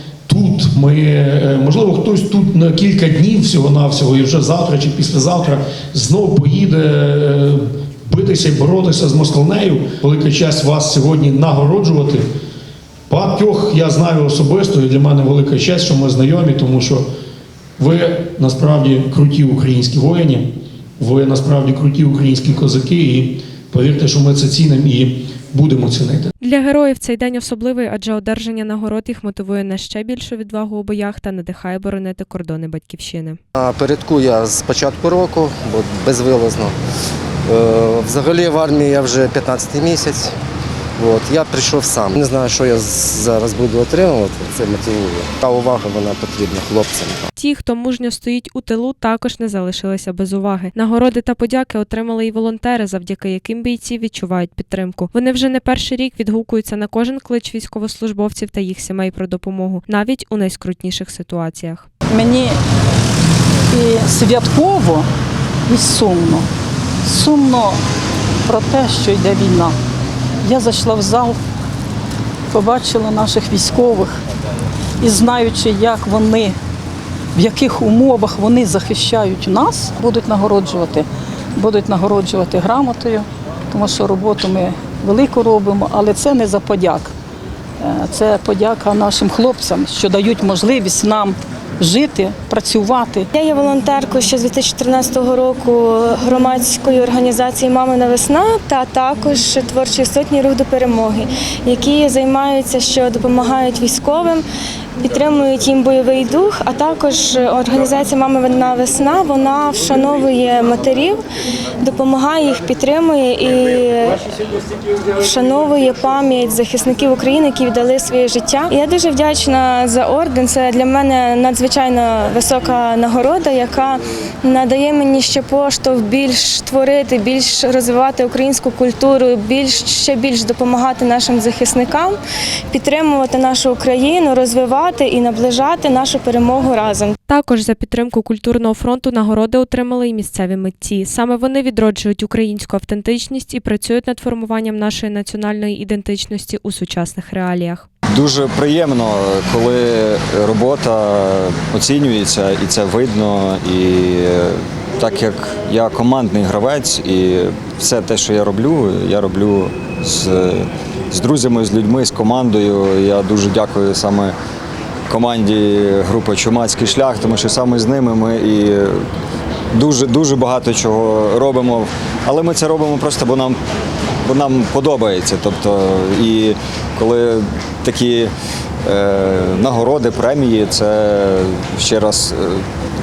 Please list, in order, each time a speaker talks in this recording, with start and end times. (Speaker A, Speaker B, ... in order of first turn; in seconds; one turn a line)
Speaker A: 0.3-12.2
Speaker A: 13.1-17.0
Speaker A: 17.8-20.5
Speaker A: 21.0-26.3
Speaker B: 26.4-33.4
Speaker C: 33.5-36.7
Speaker C: 37.5-40.3
Speaker C: 41.0-47.2
Speaker B: 47.4-61.9
Speaker D: 62.1-62.5
Speaker D: 63.7-65.0
Speaker D: 65.7-66.5
Speaker D: 67.0-67.8
Speaker D: 68.5-69.7
Speaker D: 70.4-71.4
Speaker D: 72.5-74.2
Speaker D: 75.0-76.5
Speaker D: 77.3-81.0
Speaker D: 81.6-87.1
Speaker D: 87.8-93.3
Speaker E: 93.3-104.4
Speaker E: 105.0-111.2
Speaker E: 111.8-114.2
Speaker E: 115.2-132.2
Speaker E: 132.7-137.2
Speaker B: 137.3-147.8
Speaker F: 148.1-164.3
Speaker F: 165.1-169.0
Speaker F: 169.7-173.6
Speaker F: 174.2-178.3
Speaker F: 178.8-182.6